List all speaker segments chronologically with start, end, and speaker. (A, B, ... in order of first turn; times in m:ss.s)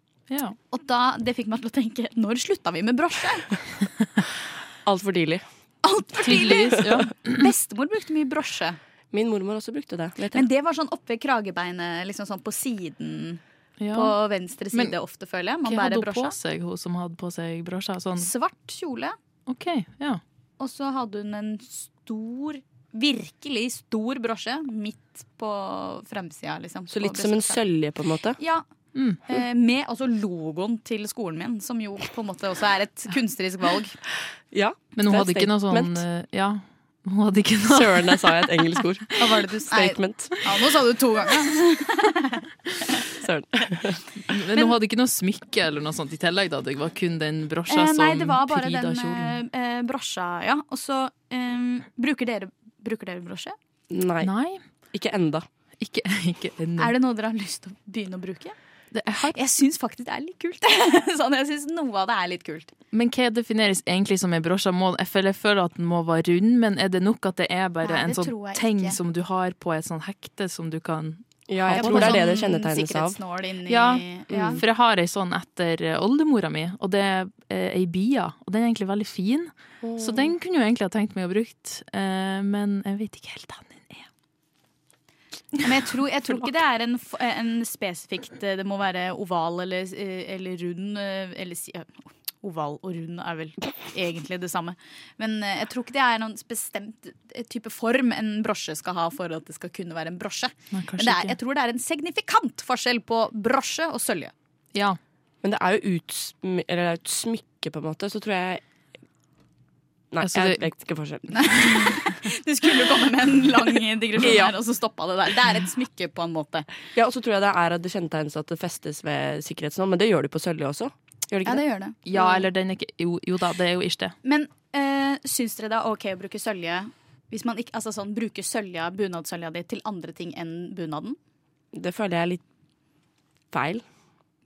0:00.3-0:00.6 A
0:00.7-0:03.5 B
0:04.8-0:05.4 C
0:05.8-0:08.8 B
0:06.2-0:07.5 A
0:09.1-0:10.5 C
0:10.3-0:13.4 B
0:13.8-0:14.2 A
0:13.9-0:16.4 B
0:14.7-0:15.0 A
0:15.6-0:18.3 A
0:18.2-0:19.1 B
0:19.5-0:20.2 A
0:20.6-0:27.6 B
0:26.9-0:28.4 C
0:28.4-0:28.6 B
0:28.9-0:29.2 A
0:29.2-0:34.0 B
0:34.5-0:36.0 C
0:35.0-0:38.8 A
0:37.7-0:39.1 C
0:39.2-0:42.4 B
0:39.7-0:40.4 C
0:43.2-0:44.1 C
0:44.3-0:49.4 A
0:47.7-0:53.5 B
0:53.9-0:55.4 C
0:54.2-0:54.6 A
0:55.8-0:57.0 A
0:56.8-0:58.6 B
0:58.9-0:59.4 A
0:59.3-1:02.7 B
1:02.9-1:12.3 A
1:07.8-1:09.0 B
1:11.5-1:13.2 C
1:11.7-1:14.6 B
1:13.7-1:24.1 A
1:14.3-1:14.6 C
1:19.8-1:20.3 C
1:25.6-1:44.3 B
1:40.7-1:41.4 A
1:44.7-1:45.0 A
1:45.4-1:48.6 C
1:50.1-1:51.7 C
1:50.2-1:50.7 A
1:51.3-1:56.6 B
1:54.2-1:54.5 C
1:54.2-1:54.5 A
1:57.0-2:02.4 C
2:01.4-2:02.0 B
2:02.0-2:04.1 A
2:04.2-2:11.2 B
2:11.7-2:12.4 C
2:13.5-2:13.8 C